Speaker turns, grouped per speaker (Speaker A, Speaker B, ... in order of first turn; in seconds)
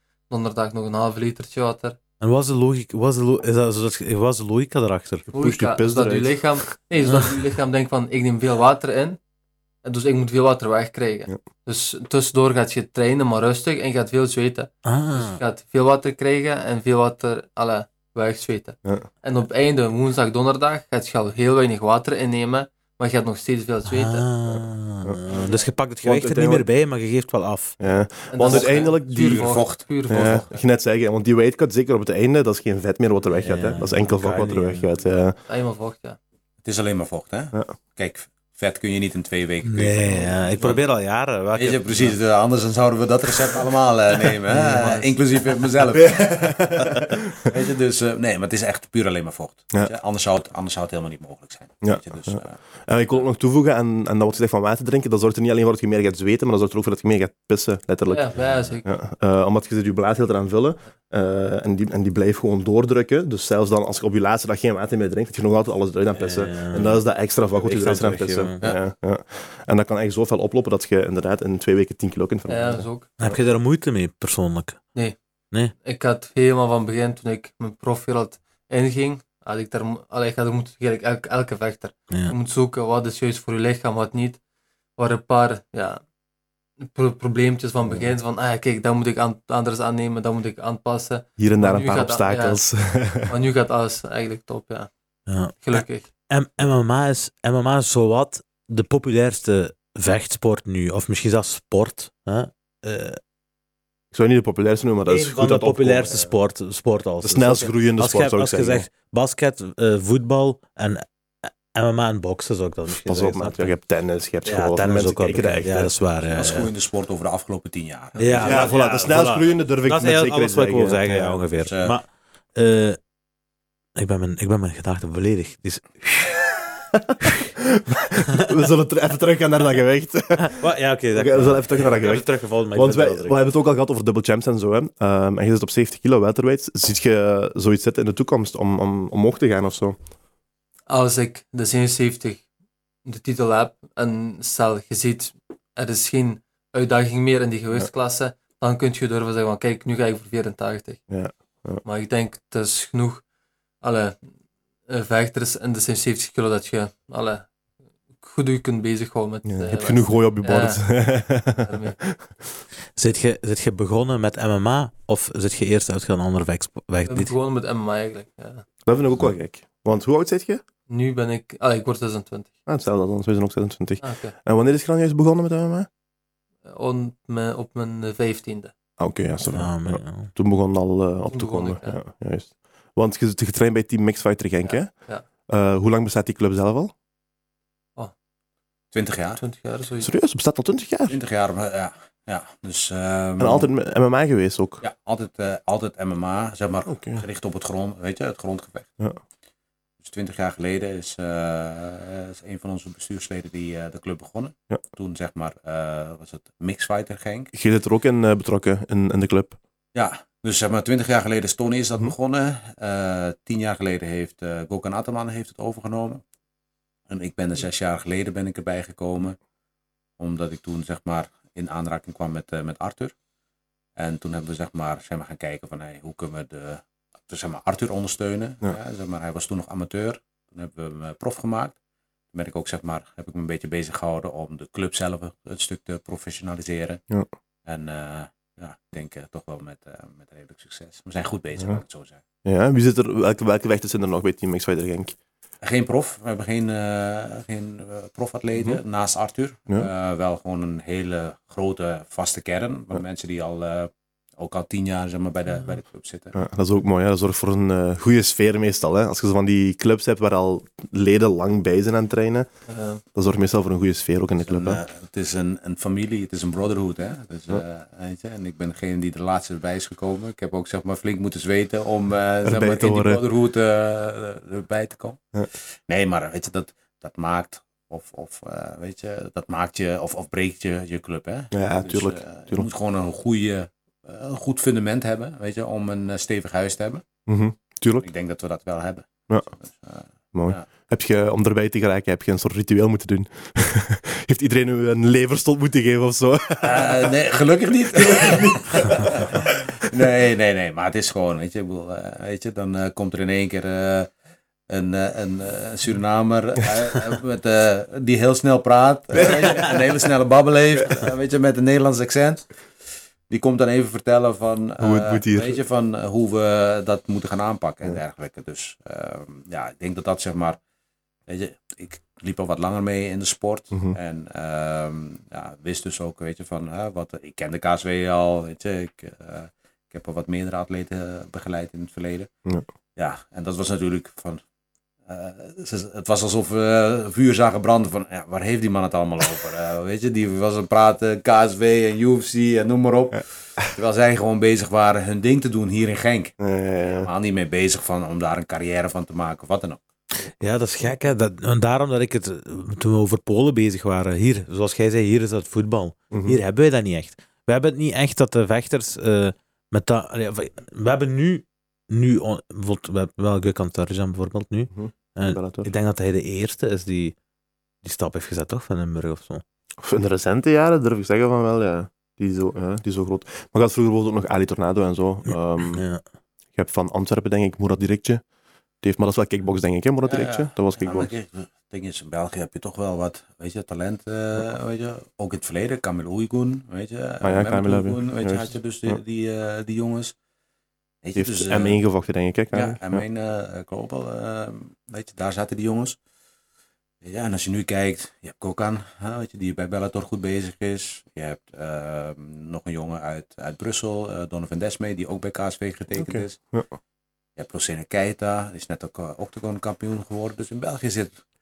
Speaker A: 0.3-2.0, 5.3-9.2, 9.8-24.3, 25.3-25.6, 28.3-30.4, 35.5-36.2, 44.6-45.0, 58.1-58.9, 72.5-73.1, 75.8-84.4, 85.0-86.0, 86.8-92.6, 93.3-94.9, 95.6-96.1, 140.9-142.4, 143.0-151.0, 151.8-153.2, 153.8-154.2, 154.9-157.5, 158.2-160.8, 161.5-162.0, 167.1-168.6, 170.9-172.5, 174.0-174.3, 176.7-178.7, 181.3-182.0, 184.6-185.2, 189.4-190.1, 262.7-263.0
Speaker B: 2.2-5.2, 7.0-7.3, 14.8-15.4, 23.9-27.8, 33.3-34.9, 39.6-42.1, 66.2-68.6, 73.2-74.8, 95.3-103.2, 105.1-113.7, 114.4-116.7, 118.2-123.0, 124.0-126.5, 130.4-133.4, 162.9-167.3, 179.5-180.3, 350.3-367.1, 367.8-369.4, 375.7-376.0
Speaker C: 5.3-6.7, 26.0-26.6, 27.8-29.5, 30.1-35.4, 45.9-47.5, 51.8-73.4, 87.8-88.1, 91.4-93.3, 104.1-106.2, 107.2-108.9, 113.0-115.9, 118.4-121.4, 127.0-130.6, 131.1-140.0, 151.1-151.8, 159.4-162.3, 168.8-170.6, 172.7-175.9, 179.0-184.9, 185.5-186.9, 190.0-191.2, 193.4-194.8, 196.9-197.2, 207.5-209.6, 242.4-245.2, 256.3-262.5, 263.1-264.8, 272.4-273.2, 281.5-282.7, 287.3-288.1, 290.3-297.1, 297.9-299.5, 309.2-309.7, 314.8-315.6, 346.4-347.1, 356.1-356.4, 364.7-365.7, 369.8-375.8, 376.5-378.2, 378.8-381.1, 387.2-389.0, 391.1-393.0, 405.9-406.7
Speaker D: 28.5-30.5, 36.6-40.8, 41.5-52.6, 116.2-118.7, 121.6-122.0, 188.9-189.4, 191.1-193.7, 194.8-198.9, 200.0-207.5, 209.9-216.2, 217.1-219.4, 220.2-223.1, 224.0-231.7, 232.3-237.0, 237.7-242.2, 245.6-256.4, 264.4-287.0, 288.0-290.6, 296.6-304.1, 304.7-312.5, 313.3-320.6, 321.3-332.3, 332.9-334.4, 335.1-346.4, 346.9-349.8, 380.0-390.1, 391.0-391.8, 392.5-396.0, 397.0-406.4, 407.4-411.1